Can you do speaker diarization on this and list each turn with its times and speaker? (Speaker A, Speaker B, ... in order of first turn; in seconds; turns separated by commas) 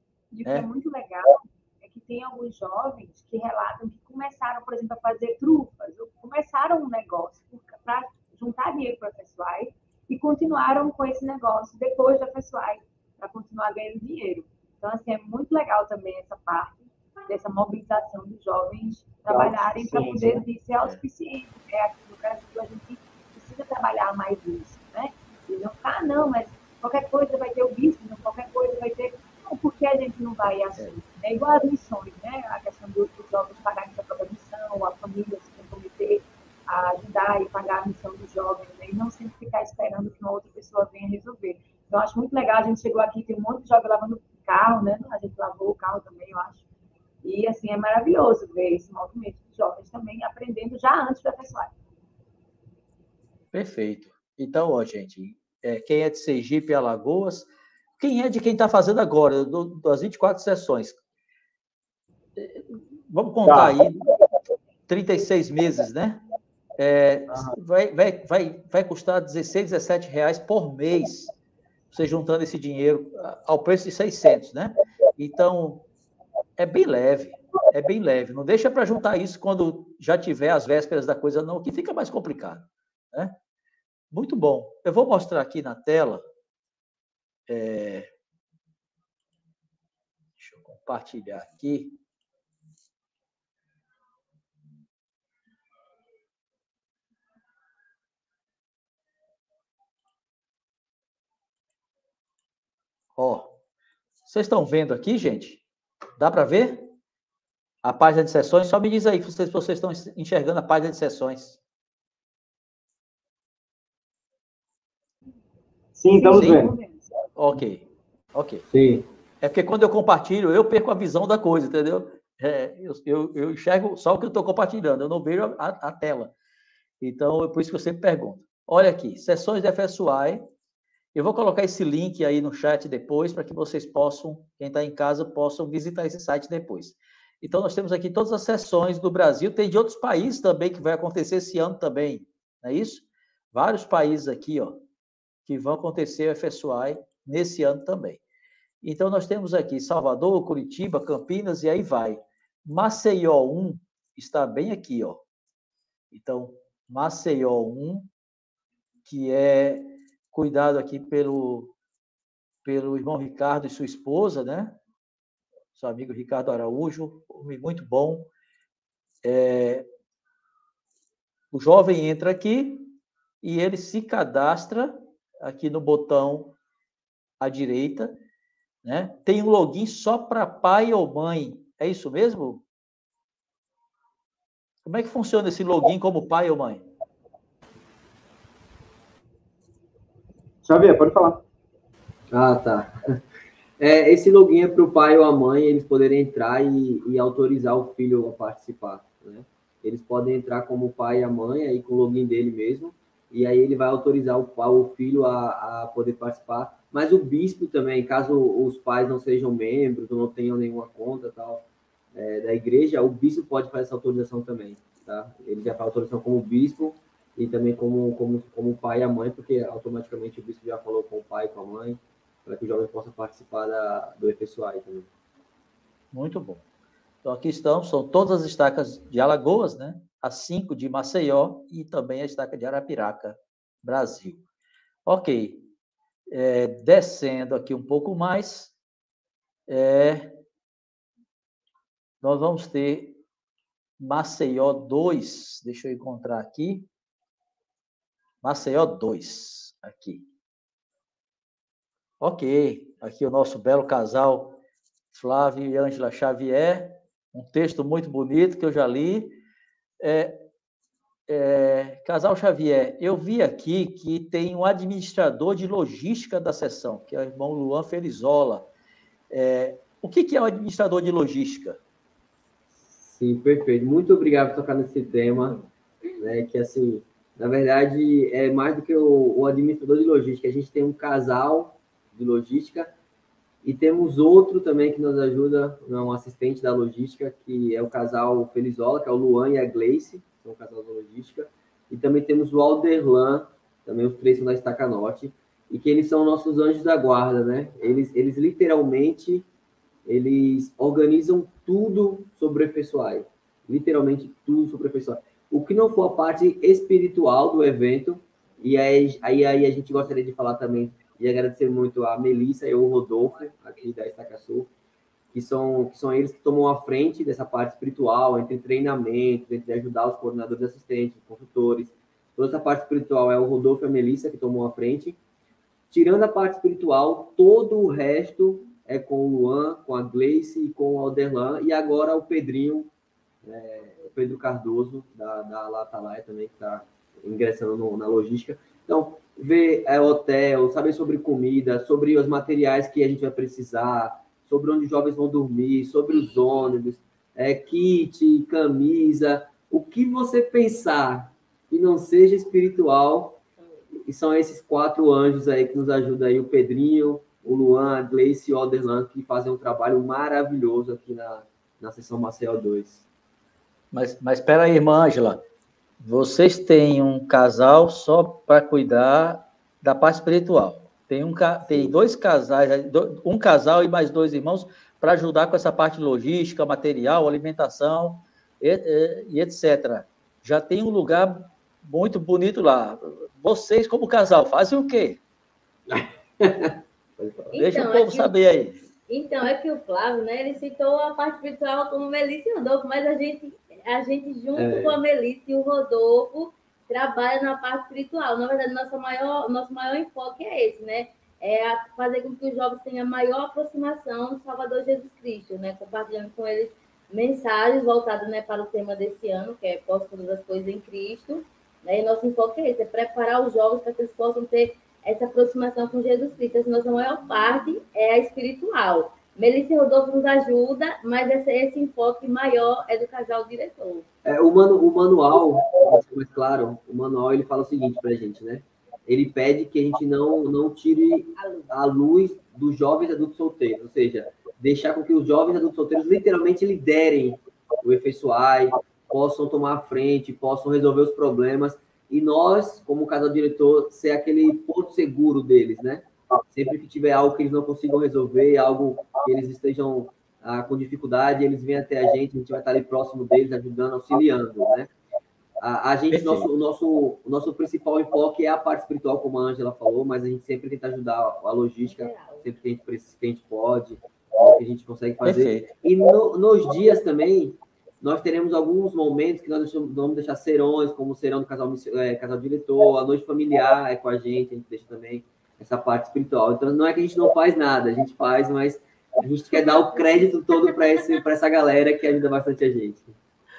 Speaker A: 0.3-46.6, Speaker B: 19.3-20.4, Speaker A: 47.2-51.7, Speaker C: 53.5-57.5, Speaker C: 58.0-61.0, Speaker C: 62.4-64.0, Speaker B: 63.4-63.8, Speaker C: 64.9-66.2, Speaker C: 66.8-71.3, Speaker B: 67.3-67.6, Speaker C: 71.9-75.8, Speaker C: 76.6-83.3, Speaker C: 84.1-86.2, Speaker C: 87.5-88.1, Speaker C: 90.4-92.0, Speaker C: 103.2-103.5, Speaker C: 104.2-105.6, Speaker C: 106.2-106.9, Speaker C: 107.8-111.6, Speaker B: 115.9-116.7, Speaker A: 116.1-117.1, Speaker C: 116.3-116.6, Speaker C: 117.3-118.6, Speaker D: 118.7-119.0, Speaker C: 119.4-126.3, Speaker C: 127.0-130.5, Speaker C: 131.1-144.8, Speaker C: 145.4-148.2, Speaker C: 148.8-155.2, Speaker C: 156.1-158.1, Speaker C: 159.1-161.7, Speaker C: 162.6-164.8, Speaker C: 165.7-168.3, Speaker C: 169.2-169.8, Speaker C: 171.5-176.5, Speaker C: 177.4-178.2, Speaker C: 178.8-182.6, Speaker C: 184.8-186.8, Speaker B: 190.6-191.4, Speaker D: 192.3-192.9, Speaker D: 193.8-225.1, Speaker C: 226.1-226.6, Speaker C: 227.2-234.4, Speaker C: 235.1-235.7, Speaker C: 236.3-238.7, Speaker C: 239.7-240.4, Speaker C: 242.2-243.2, Speaker C: 244.0-246.9, Speaker C: 248.4-250.2, Speaker C: 252.2-254.6, Speaker C: 255.1-259.4, Speaker C: 260.0-260.5, Speaker C: 261.3-268.7, Speaker C: 269.3-271.8, Speaker D: 272.8-275.6, Speaker D: 276.2-282.9, Speaker D: 283.6-299.5, Speaker D: 300.1-314.7, Speaker D: 315.3-325.2, Speaker D: 325.9-332.9, Speaker D: 333.4-353.4, Speaker E: 346.1-346.7, Speaker E: 353.6-353.9, Speaker D: 353.9-363.1, Speaker C: 363.9-365.4, Speaker C: 366.0-385.2, Speaker D: 385.9-387.5, Speaker E: 387.5-388.4, Speaker C: 387.5-388.8, Speaker E: 389.1-424.1, Speaker D: 394.5-395.0, Speaker D: 424.2-454.9, Speaker E: 431.3-431.8, Speaker D: 455.6-483.2, Speaker C: 456.1-456.5, Speaker E: 461.8-462.5, Speaker C: 465.2-465.7, Speaker E: 479.5-481.2